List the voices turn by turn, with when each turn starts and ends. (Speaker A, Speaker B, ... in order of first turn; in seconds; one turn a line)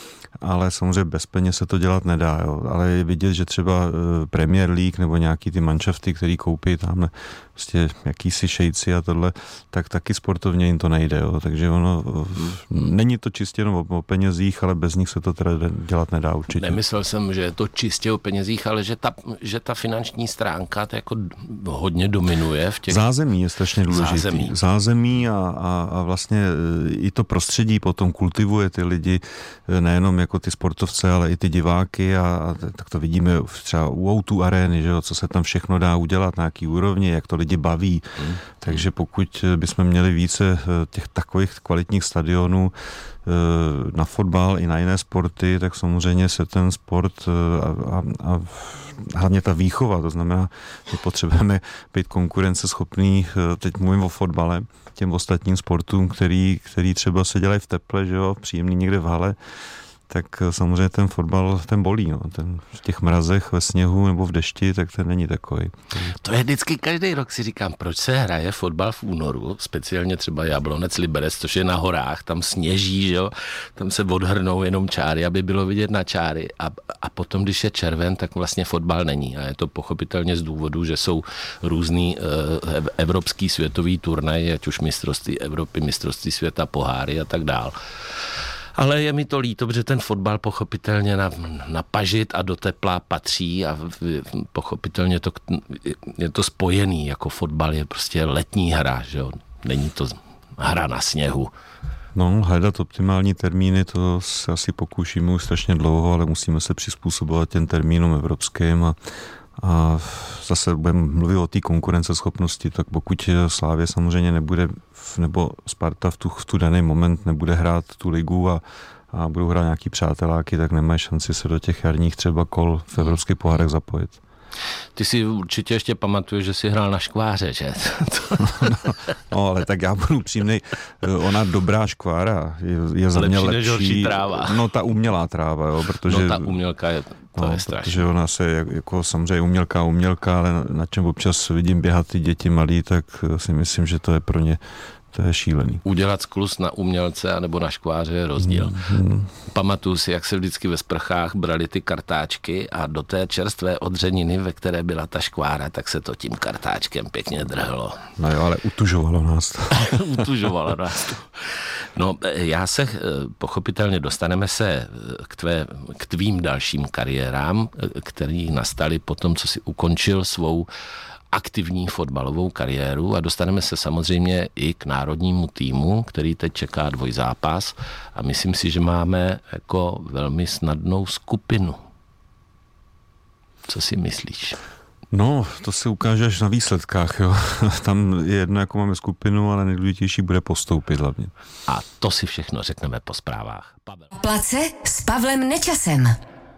Speaker A: 0.4-16.8
Speaker B: 12.3-12.9
Speaker B: 16.6-23.0
Speaker A: 22.9-42.7
Speaker B: 23.9-24.6
Speaker B: 38.2-38.8
Speaker A: 43.2-59.4
Speaker A: 60.1-66.2
Speaker B: 66.1-101.5
Speaker A: 102.2-109.0
Speaker A: 109.6-124.2
Speaker B: 125.0-128.9
Speaker A: 128.4-136.5
Speaker B: 133.2-134.6
Speaker B: 136.1-138.1
Speaker A: 137.3-144.6
Speaker A: 145.1-145.8
Speaker B: 145.8-148.8
Speaker A: 148.4-149.3
Speaker B: 149.4-158.1
Speaker A: 158.2-160.2
Speaker B: 159.7-170.7
Speaker B: 171.3-181.8
Speaker B: 183.7-184.6
Speaker A: 185.1-191.3
Speaker B: 191.7-194.1
Speaker C: 194.1-196.2